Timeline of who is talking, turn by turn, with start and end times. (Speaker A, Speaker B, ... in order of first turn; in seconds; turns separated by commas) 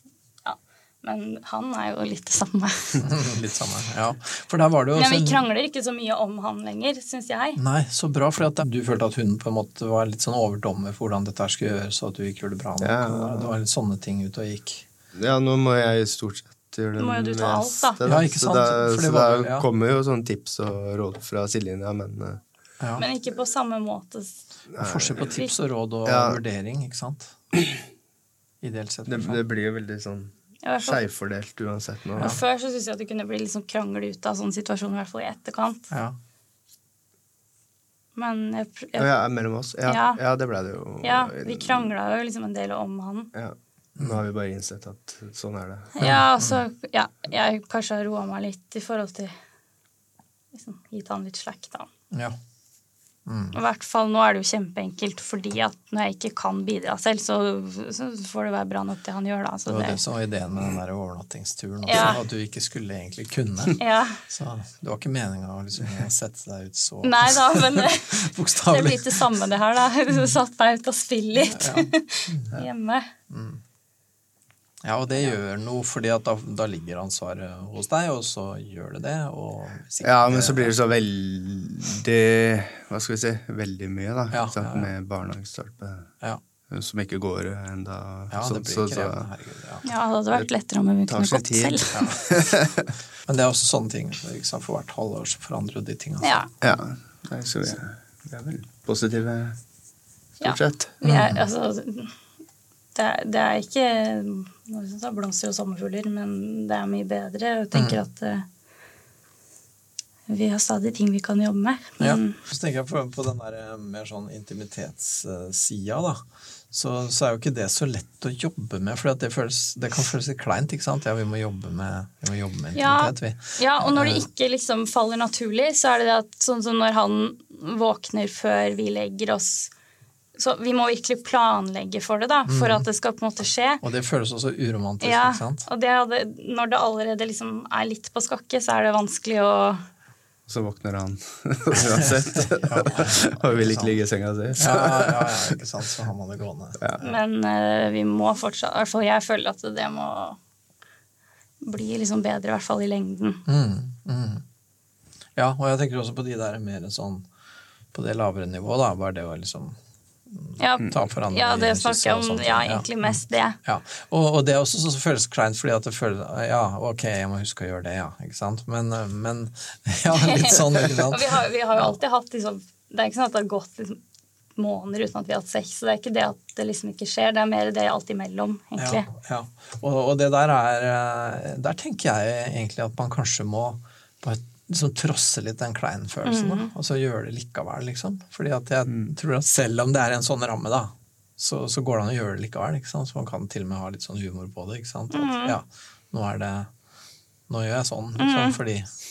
Speaker A: 0.4-3.0, Speaker B: 3.0-5.4, Speaker A: 5.0-7.6, Speaker B: 7.6-14.8, Speaker C: 12.8-13.5, Speaker C: 15.1-22.4, Speaker A: 17.0-18.0, Speaker B: 18.0-19.7, Speaker B: 22.8-23.1, Speaker A: 23.0-24.4, Speaker C: 24.7-25.3, Speaker B: 24.8-27.4, Speaker A: 25.2-25.5, Speaker C: 26.0-26.4, Speaker B: 28.6-29.4, Speaker C: 29.1-32.4, Speaker A: 30.6-31.0, Speaker A: 32.2-35.9, Speaker B: 35.9-36.1, Speaker A: 38.1-39.1, Speaker C: 39.0-41.9, Speaker A: 39.8-40.2, Speaker A: 41.0-43.3, Speaker C: 43.3-45.9, Speaker A: 45.9-49.3, Speaker B: 46.0-46.6, Speaker A: 50.5-51.9, Speaker B: 53.2-53.5, Speaker A: 53.5-60.0, Speaker B: 59.7-69.2, Speaker A: 61.8-62.2, Speaker A: 63.8-64.2, Speaker A: 67.0-73.1, Speaker B: 71.5-72.5, Speaker B: 73.3-73.6, Speaker B: 74.8-80.8, Speaker C: 80.0-86.1, Speaker B: 84.3-84.9, Speaker C: 86.7-89.3, Speaker B: 88.3-89.9, Speaker A: 89.8-92.0, Speaker C: 91.1-92.9, Speaker B: 91.9-92.3, Speaker B: 93.3-96.4, Speaker A: 96.2-96.5, Speaker C: 96.6-99.6, Speaker C: 100.4-100.9, Speaker A: 100.4-102.1, Speaker B: 101.0-101.4, Speaker A: 102.9-108.5, Speaker A: 110.3-112.4, Speaker B: 112.0-124.2, Speaker A: 122.7-129.7, Speaker A: 130.3-133.8, Speaker B: 132.5-132.8, Speaker B: 133.8-135.7, Speaker A: 135.0-139.8, Speaker C: 140.5-145.6, Speaker B: 142.0-143.9, Speaker B: 144.6-147.0, Speaker A: 147.0-150.4, Speaker A: 151.6-153.4, Speaker B: 153.4-154.4, Speaker B: 155.3-157.2, Speaker B: 157.9-159.8, Speaker B: 160.3-171.9, Speaker A: 160.6-163.6, Speaker A: 170.1-174.0, Speaker A: 174.6-179.1, Speaker B: 178.8-196.7, Speaker A: 186.2-186.7, Speaker A: 195.1-195.6, Speaker B: 197.5-198.9, Speaker A: 198.2-198.6